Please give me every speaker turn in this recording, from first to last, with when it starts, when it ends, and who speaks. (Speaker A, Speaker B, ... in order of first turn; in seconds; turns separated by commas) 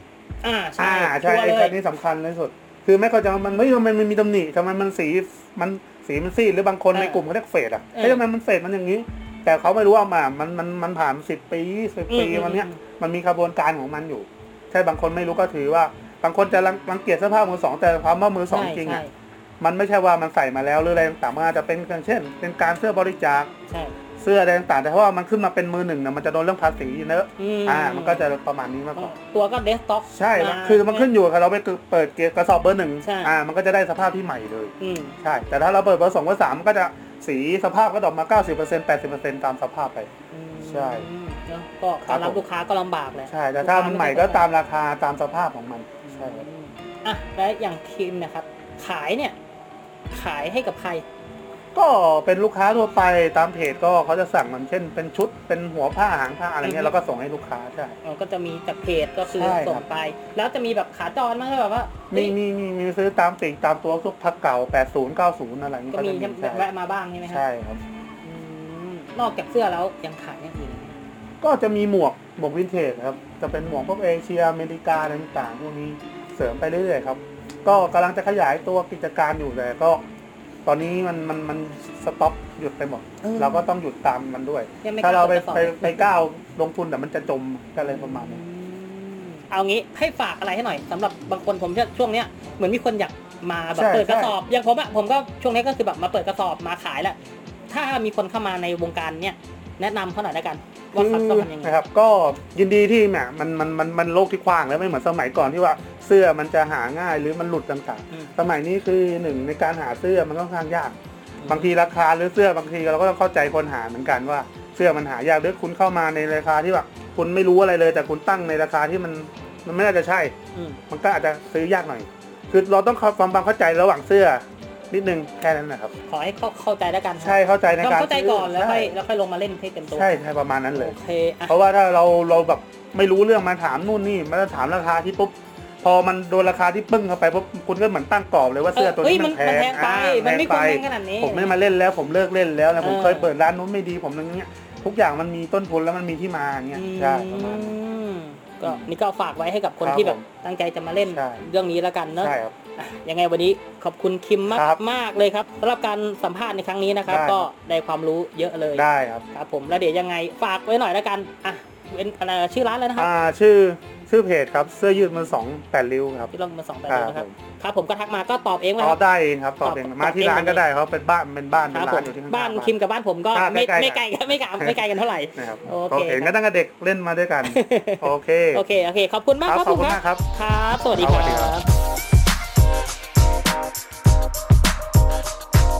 Speaker A: 0.4-1.8, Speaker B: 0.8-19.0, Speaker A: 6.9-7.2, Speaker A: 7.9-8.2, Speaker A: 12.1-12.8, Speaker A: 18.5-19.1, Speaker B: 19.6-23.5, Speaker A: 23.7-23.9, Speaker B: 24.2-29.1, Speaker A: 27.4-28.3, Speaker A: 28.9-31.1, Speaker B: 30.1-40.1, Speaker A: 33.0-33.3, Speaker A: 34.8-35.1, Speaker A: 40.3-44.5, Speaker B: 40.6-41.1, Speaker B: 42.0-42.4, Speaker B: 43.3-46.4, Speaker A: 46.0-49.4, Speaker A: 50.1-51.0, Speaker B: 51.7-58.0, Speaker A: 56.6-56.9, Speaker A: 58.0-62.3, Speaker B: 59.2-59.8, Speaker B: 62.1-66.7, Speaker A: 65.9-67.4, Speaker B: 67.2-67.8, Speaker A: 68.2-70.9, Speaker B: 71.4-80.0, Speaker B: 80.6-88.4, Speaker A: 83.2-83.7, Speaker A: 84.8-86.2, Speaker A: 87.8-97.2, Speaker B: 93.7-94.3, Speaker A: 97.7-101.8, Speaker B: 100.9-120.3, Speaker A: 111.4-111.7, Speaker A: 120.5-120.8, Speaker B: 120.9-125.9, Speaker A: 126.1-130.2, Speaker B: 127.2-129.0, Speaker B: 129.9-130.9, Speaker A: 130.7-131.6, Speaker B: 131.5-147.8, Speaker A: 138.7-141.6, Speaker A: 142.8-143.3, Speaker A: 146.7-163.1, Speaker B: 148.6-148.9, Speaker B: 149.8-150.3, Speaker B: 151.0-151.4, Speaker B: 152.2-152.6, Speaker B: 154.5-154.8, Speaker B: 157.1-157.5, Speaker B: 158.7-159.2, Speaker B: 162.9-166.3, Speaker A: 166.3-169.0, Speaker B: 166.9-167.3, Speaker B: 168.8-172.7, Speaker A: 169.6-170.6, Speaker A: 171.7-176.3, Speaker B: 173.3-174.8, Speaker B: 175.3-178.6, Speaker A: 177.4-181.7, Speaker B: 179.4-180.3, Speaker B: 181.0-181.6